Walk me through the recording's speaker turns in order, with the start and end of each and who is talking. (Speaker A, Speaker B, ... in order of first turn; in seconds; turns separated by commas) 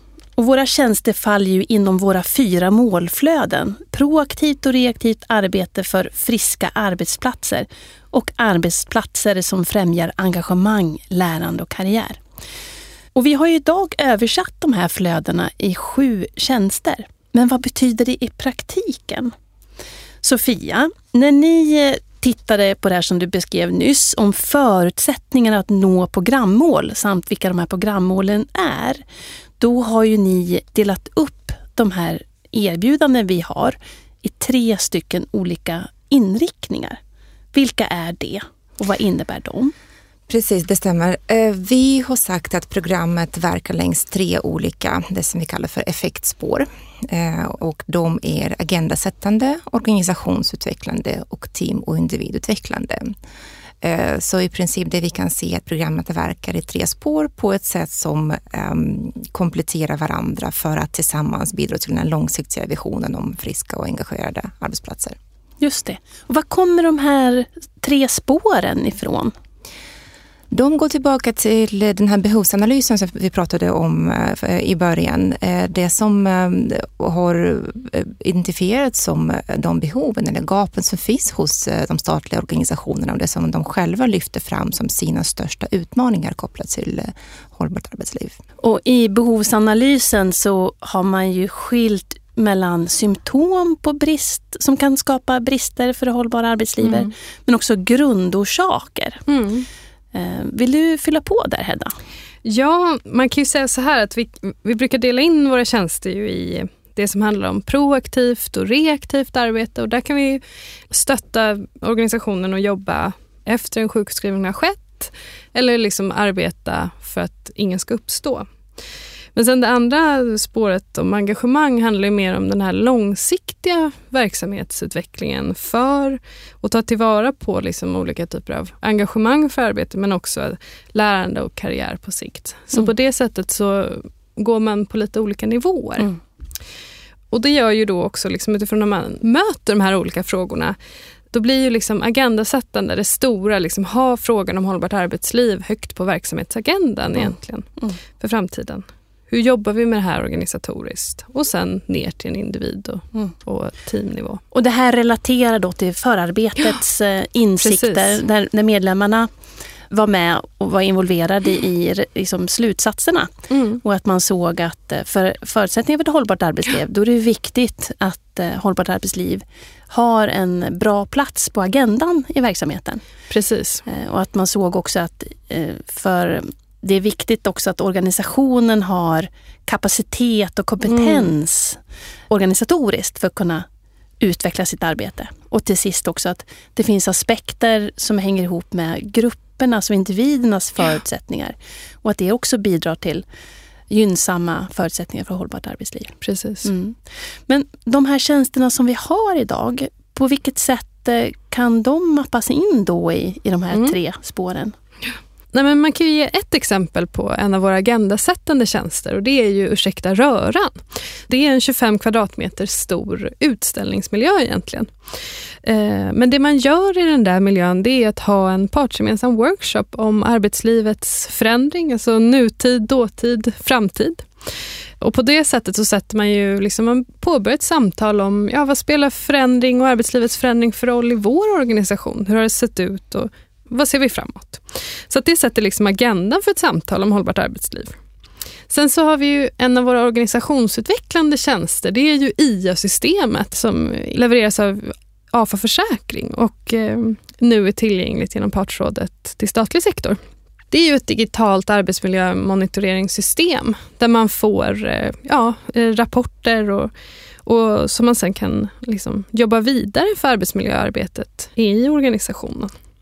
Speaker A: 0.4-12.2, Speaker A: 13.2-19.3, Speaker A: 20.2-29.0, Speaker A: 29.6-37.0, Speaker A: 37.5-39.7, Speaker B: 40.3-53.1, Speaker B: 53.8-65.2, Speaker A: 65.6-69.3, Speaker B: 70.5-88.4, Speaker A: 88.6-99.2, Speaker C: 96.8-97.1, Speaker C: 99.3-99.7, Speaker A: 100.1-102.0, Speaker C: 102.5-118.5, Speaker C: 119.3-136.1, Speaker C: 137.3-140.8, Speaker C: 141.3-154.4, Speaker A: 147.2-148.0, Speaker A: 154.5-159.3, Speaker C: 157.6-158.2, Speaker A: 159.9-173.0, Speaker C: 163.5-163.8, Speaker C: 173.3-173.8, Speaker A: 173.9-183.7, Speaker C: 180.9-181.3, Speaker A: 184.2-193.2, Speaker A: 193.9-204.8, Speaker C: 196.2-196.7, Speaker C: 203.7-204.0, Speaker C: 205.5-214.9, Speaker C: 215.6-224.3, Speaker C: 225.0-238.0, Speaker C: 238.7-250.2, Speaker C: 250.7-256.9, Speaker C: 257.5-262.7